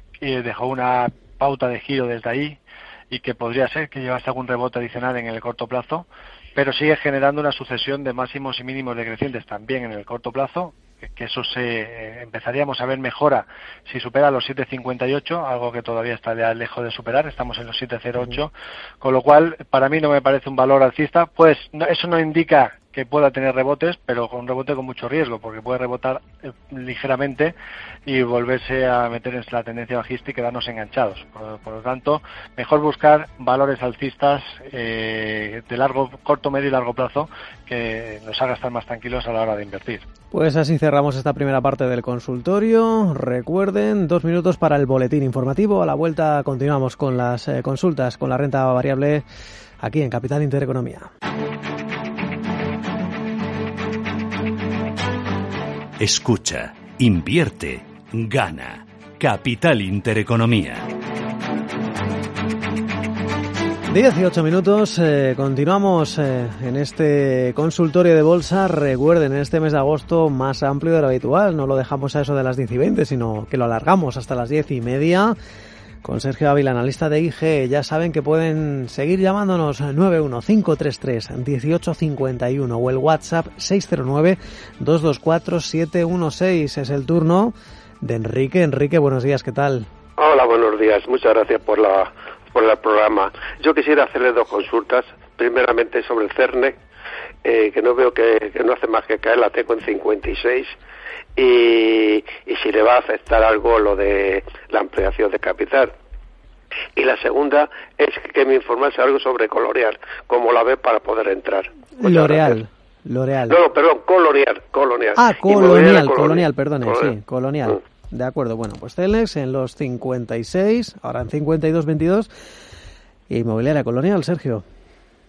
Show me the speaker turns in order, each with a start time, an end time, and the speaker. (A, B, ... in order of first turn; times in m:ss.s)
0:00.2-0:27.6 A
0:28.1-0:40.1 A
0:40.3-0:49.2 B
0:49.8-0:51.1 B
0:56.0-1:00.9 C
1:03.9-1:15.4 B
1:16.0-1:29.9 B
1:30.2-1:36.8 D
1:37.4-1:40.8 D
1:41.4-1:45.9 D
1:47.0-1:52.6 D
1:52.0-1:53.6 B
1:53.5-1:57.2 D
1:55.2-2:02.3 B
2:03.3-2:04.6 B